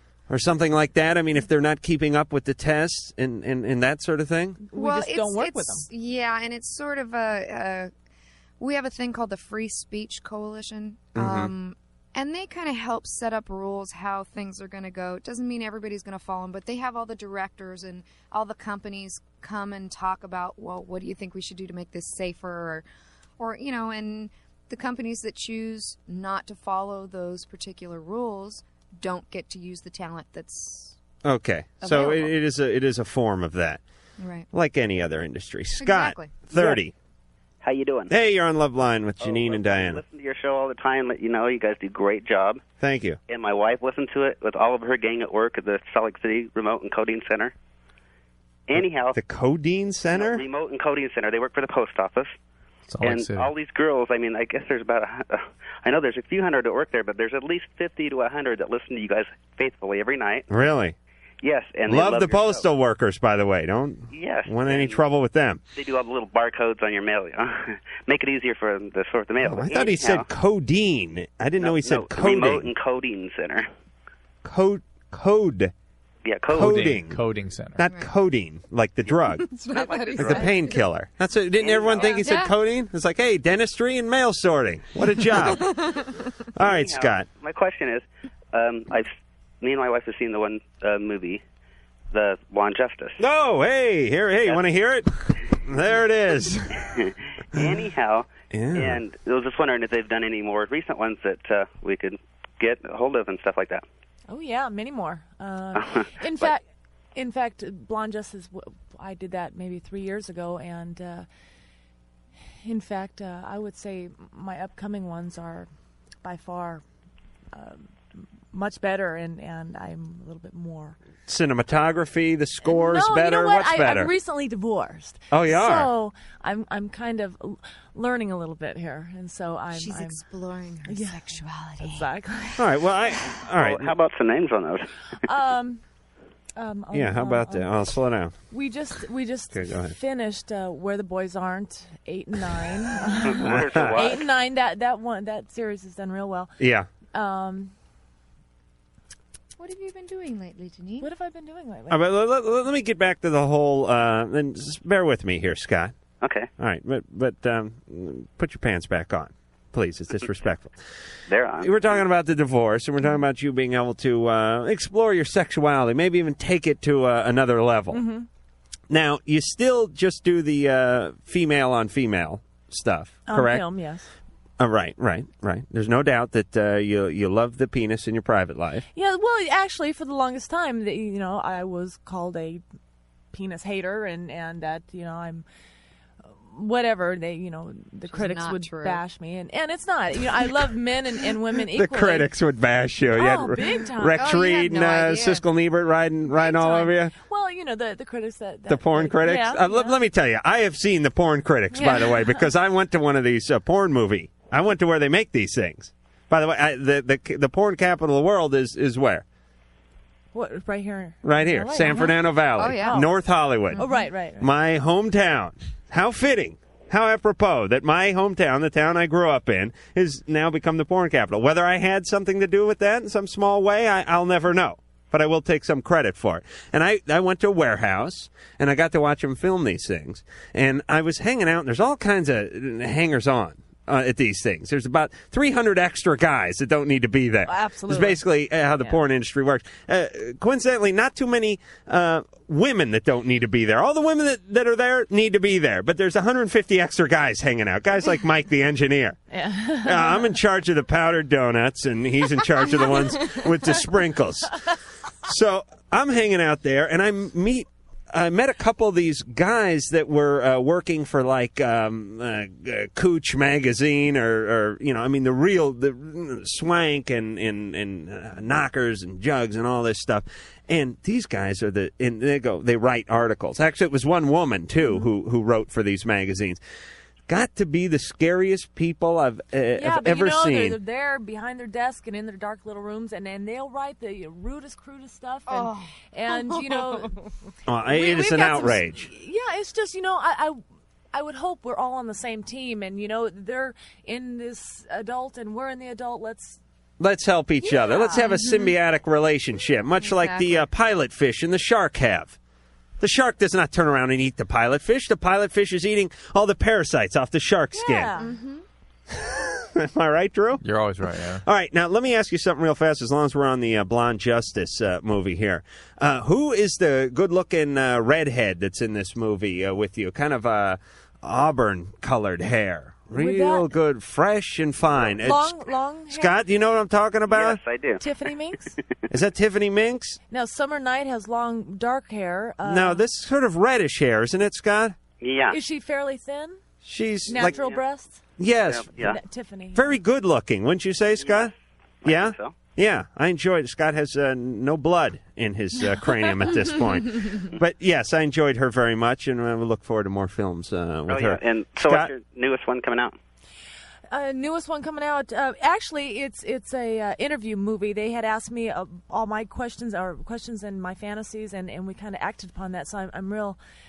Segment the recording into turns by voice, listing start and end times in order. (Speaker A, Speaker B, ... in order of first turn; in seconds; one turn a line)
Speaker A: 0.3-4.6
Speaker B: 4.6-5.9
Speaker C: 4.7-7.9
Speaker C: 8.6-22.8
Speaker A: 11.1-11.5
Speaker C: 23.4-31.0
Speaker A: 31.2-33.8
Speaker C: 31.8-32.3
Speaker C: 34.2-34.5
Speaker A: 34.5-36.9
Speaker C: 35.8-36.8
Speaker D: 37.6-38.1
Speaker A: 38.1-40.0
Speaker D: 39.2-42.6
Speaker A: 42.8-43.2
Speaker D: 43.3-47.5
Speaker D: 48.7-49.1
Speaker A: 49.1-50.4
Speaker D: 50.1-52.3
Speaker E: 52.9-53.5
Speaker D: 53.0-60.5
Speaker A: 60.5-60.9
Speaker D: 61.4-62.6
Speaker A: 61.9-65.6
Speaker D: 64.1-65.0
Speaker D: 65.7-70.3
Speaker A: 69.4-72.7
Speaker D: 71.6-73.7
Speaker A: 74.4-75.7
Speaker D: 76.2-76.8
Speaker E: 76.5-77.9
Speaker A: 76.5-77.2
Speaker A: 77.8-79.5
Speaker C: 77.8-78.1
Speaker C: 79.2-80.8
Speaker D: 79.7-80.5
Speaker A: 80.2-85.7
Speaker D: 81.6-82.2
Speaker C: 81.8-82.5
Speaker C: 85.3-86.1
Speaker A: 86.5-87.2
Speaker D: 86.6-89.1
Speaker D: 89.6-91.4
Speaker D: 92.1-93.2
Speaker A: 93.2-95.1
Speaker A: 95.7-96.6
Speaker D: 96.9-103.8
Speaker A: 98.5-99.0
Speaker B: 104.3-106.6
Speaker D: 105.8-106.5
Speaker B: 107.1-111.3
Speaker B: 112.6-115.7
Speaker B: 116.2-116.8
Speaker B: 117.5-121.0
Speaker A: 121.3-124.1
Speaker B: 122.7-130.2
Speaker A: 125.3-125.9
Speaker C: 129.7-132.2
Speaker B: 130.8-132.6
Speaker A: 132.6-133.9
Speaker D: 133.6-134.8
Speaker B: 135.3-135.8
Speaker B: 136.6-137.7
Speaker A: 136.9-138.3
Speaker B: 138.5-146.5
Speaker A: 139.5-139.9
Speaker D: 143.2-144.3
Speaker A: 143.4-144.0
Speaker A: 146.6-146.9
Speaker B: 147.1-147.7
Speaker C: 149.6-151.1
Speaker B: 151.0-152.0
Speaker A: 151.9-155.9
Speaker D: 156.2-156.5
Speaker A: 156.6-160.7
Speaker D: 161.3-162.1
Speaker A: 161.6-168.0
Speaker B: 167.9-168.3
Speaker A: 168.9-173.7
Speaker B: 173.3-174.0
Speaker A: 174.6-178.8
Speaker B: 178.9-182.6
Speaker B: 183.3-185.4
Speaker B: 186.3-192.3
Speaker C: 188.1-189.0
Speaker A: 191.7-197.1
Speaker B: 193.1-194.4
Speaker C: 194.1-195.4
Speaker B: 196.3-200.0
Speaker A: 198.7-209.2
Speaker B: 201.7-202.4
Speaker B: 210.3-213.1
Speaker A: 211.2-213.8
Speaker C: 212.5-213.1
Speaker C: 213.7-214.0
Speaker B: 213.8-214.5
Speaker A: 214.4-249.2
Speaker B: 237.5-238.2
Speaker B: 249.3-250.3
Speaker A: 249.8-254.5
Speaker A: 255.2-276.6
Speaker A: 277.3-280.8
Speaker B: 279.7-287.1
Speaker C: 285.5-285.9
Speaker C: 286.5-287.0
Speaker A: 287.7-289.1
Speaker B: 287.9-290.6
Speaker B: 291.1-296.6
Speaker A: 297.0-302.4
Speaker B: 297.6-298.4
Speaker C: 298.3-298.7
Speaker C: 300.0-300.6
Speaker A: 303.0-308.1
Speaker B: 307.7-308.3
Speaker C: 308.2-308.6
Speaker A: 309.1-310.6
Speaker E: 310.6-311.4
Speaker A: 311.4-325.6
Speaker B: 323.1-323.6
Speaker B: 325.2-326.3
Speaker A: 326.1-327.6
Speaker D: 327.3-328.0
Speaker B: 328.0-328.7
Speaker A: 329.1-330.2
Speaker B: 330.3-333.0
Speaker A: 332.6-335.0
Speaker D: 335.2-335.6
Speaker B: 335.5-336.6
Speaker A: 336.8-337.6
Speaker B: 337.2-338.2
Speaker D: 337.4-337.8
Speaker A: 338.4-338.9
Speaker D: 338.6-339.2
Speaker B: 338.9-340.0
Speaker A: 339.7-341.5
Speaker D: 341.1-341.5
Speaker D: 342.0-342.5
Speaker A: 342.0-352.1
Speaker D: 351.1-353.1
Speaker B: 354.1-363.6